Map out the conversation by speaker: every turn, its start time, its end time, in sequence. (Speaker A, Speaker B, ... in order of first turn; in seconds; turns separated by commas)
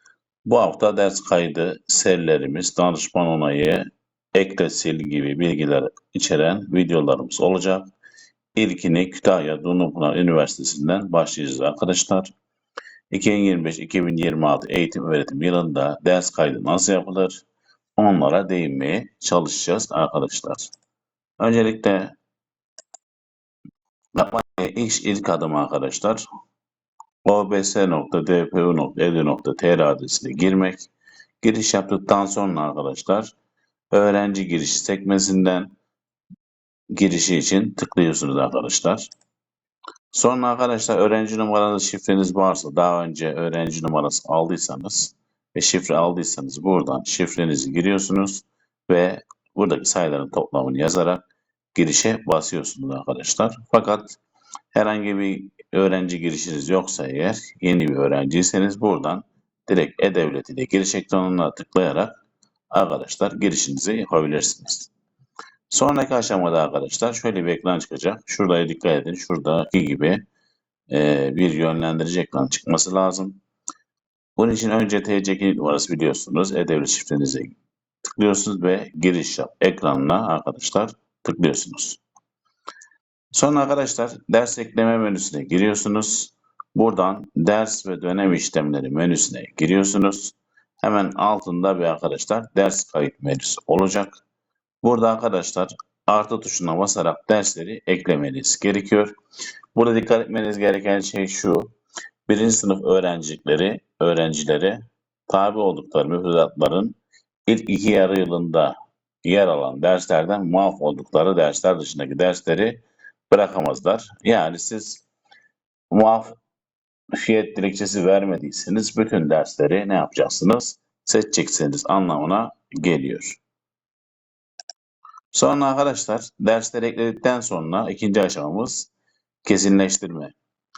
Speaker A: 0.5-7.9, Speaker A: 8.6-12.3, Speaker A: 13.1-17.4, Speaker A: 18.0-20.7, Speaker A: 21.4-22.1, Speaker A: 24.1-26.2, Speaker A: 27.2-30.9, Speaker A: 31.4-33.3, Speaker A: 33.9-35.7, Speaker A: 36.9-39.1, Speaker A: 40.1-54.2, Speaker A: 54.7-62.2, Speaker A: 62.7-64.9, Speaker A: 65.7-70.2, Speaker A: 70.9-73.4, Speaker A: 74.4-77.6, Speaker A: 78.1-82.0, Speaker A: 83.3-94.2, Speaker A: 94.8-99.1, Speaker A: 99.8-101.7, Speaker A: 102.3-115.0, Speaker A: 115.9-116.3, Speaker A: 117.2-123.4, Speaker A: 125.3-128.9, Speaker A: 129.4-130.3